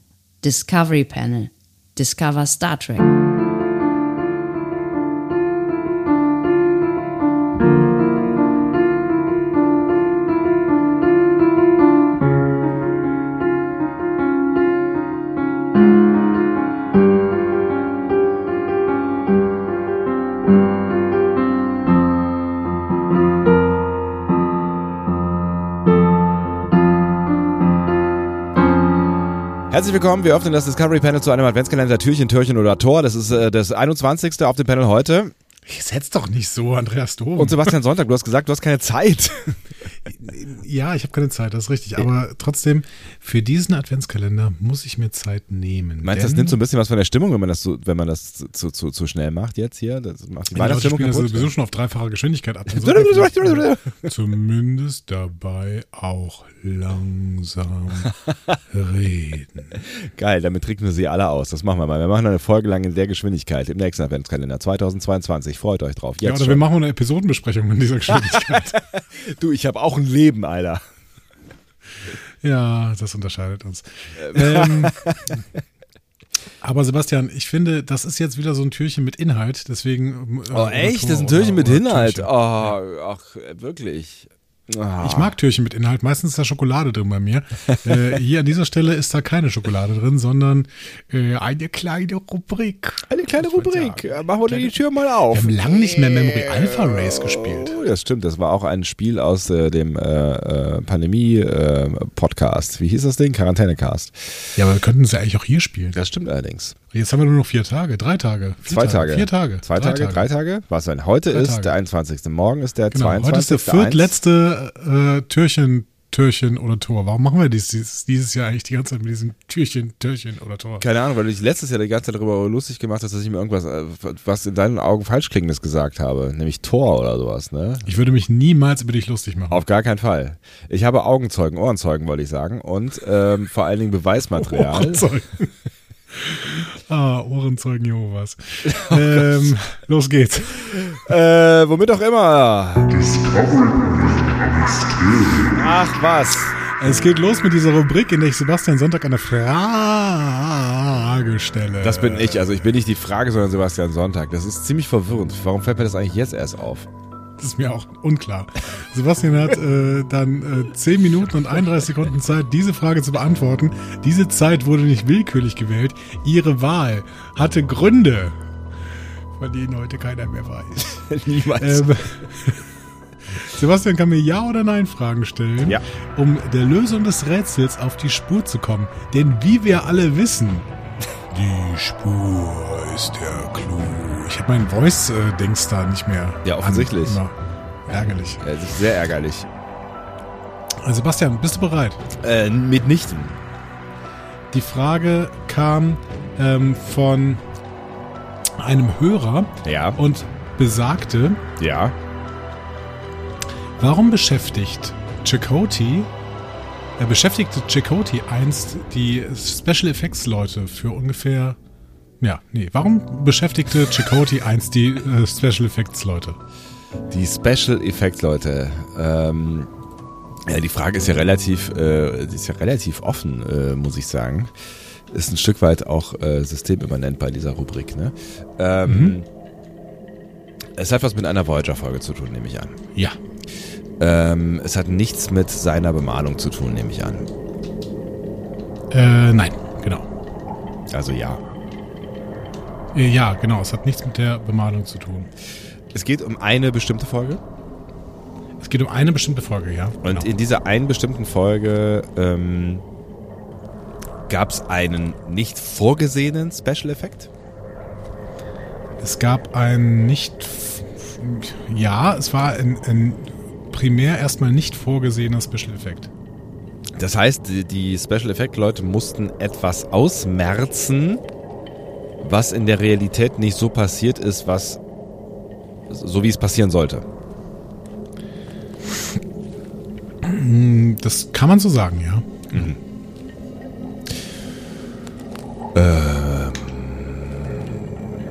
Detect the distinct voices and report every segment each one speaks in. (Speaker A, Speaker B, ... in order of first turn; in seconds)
Speaker A: 0.4-3.0
Speaker B: 29.7-35.3, 37.4-39.5, 46.0-51.5, 52.7-54.1, 59.7-66.7, 68.1-70.8, 74.2-75.3, 80.5-85.3, 93.1-95.7, 97.2-104.3, 105.9-106.8, 108.7-114.2, 120.8-128.0, 129.5-135.1, 138.7-139.5, 140.9-143.1, 145.5-146.6, 151.8-156.9, 170.9-171.9, 186.4-187.2, 188.4-189.5, 192.2-193.4, 199.6-200.0, 201.6-201.9, 217.1-219.7, 220.5-224.5, 225.1-229.3, 230.8-232.8, 234.0-237.3, 240.9-241.4, 245.9-247.4, 250.0-252.8, 254.3-257.3, 267.0-271.2, 272.2-274.8, 275.9-277.1, 282.5-282.8, 285.8-287.9
Speaker C: 35.7-37.8, 40.1-46.6, 50.5-58.1, 58.7-59.8, 66.2-68.8, 72.4-75.0, 76.6-82.7, 85.0-94.8, 95.3-97.8, 104.6-106.0, 106.9-110.3, 111.3-111.7, 112.9-120.9, 127.8-129.6, 134.4-135.5, 136.2-140.9, 143.2-145.3, 146.7-152.5, 157.4-168.4, 169.4-171.1, 171.6-172.6, 173.4-180.7, 181.3-187.4, 187.9-188.4, 190.8-192.0, 194.5-197.4, 198.6-201.4, 203.8-206.1, 207.0-211.6, 212.2-216.4, 228.8-229.2, 238.9-240.1, 242.9-245.3, 248.6-250.3, 259.0-266.1, 280.2-282.7